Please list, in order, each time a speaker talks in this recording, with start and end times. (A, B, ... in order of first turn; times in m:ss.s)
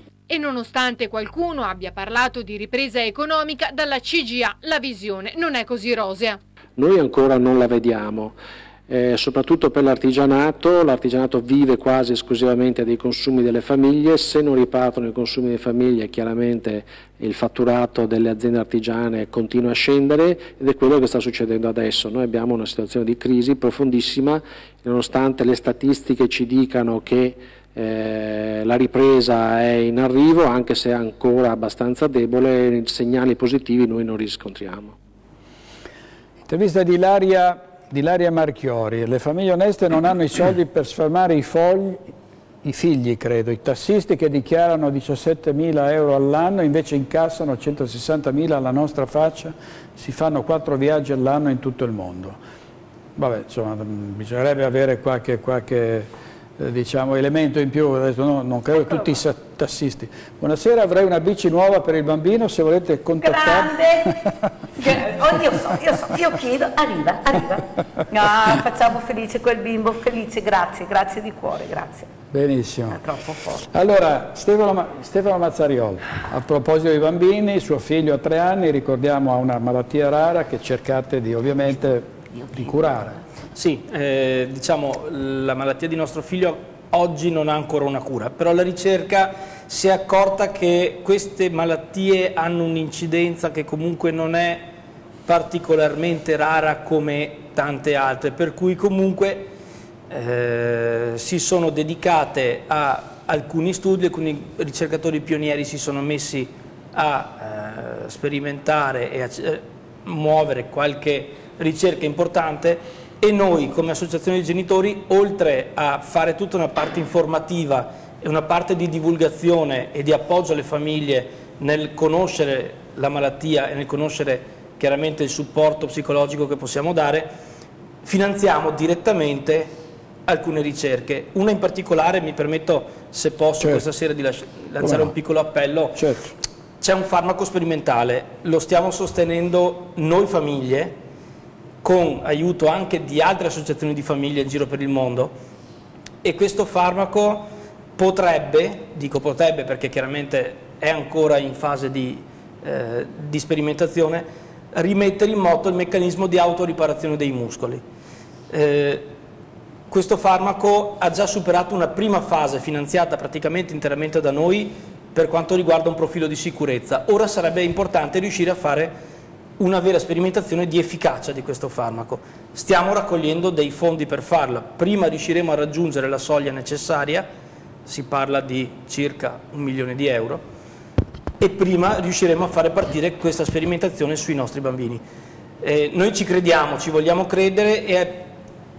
0:00.3-0:06.4 A
0:06.8-0:08.4 B
0:08.9-0:35.0 B
0:36.5-0:42.0 C
0:42.6-0:52.4 C
0:53.2-0:56.1 C
0:56.6-1:03.8 C
0:58.8-0:59.2 D
1:03.2-1:04.2 D
1:04.8-1:12.1 D
1:12.3-1:13.0 C
1:12.9-1:13.7 D
1:13.7-1:23.2 C
1:23.6-1:34.7 E
1:35.3-1:39.5 E
1:40.1-2:07.3 E
2:08.0-2:09.7 E
2:10.3-2:16.0 E
2:14.8-2:15.1 C
2:16.0-2:16.3 C
2:16.8-2:21.0 E
2:21.8-2:25.3 E
2:26.2-2:37.8 E
2:38.5-2:39.1 E
2:39.9-2:48.9 E
2:49.6-2:57.3 E
2:57.9-3:00.4 E
3:01.4-3:05.0 E
3:05.6-3:08.3 E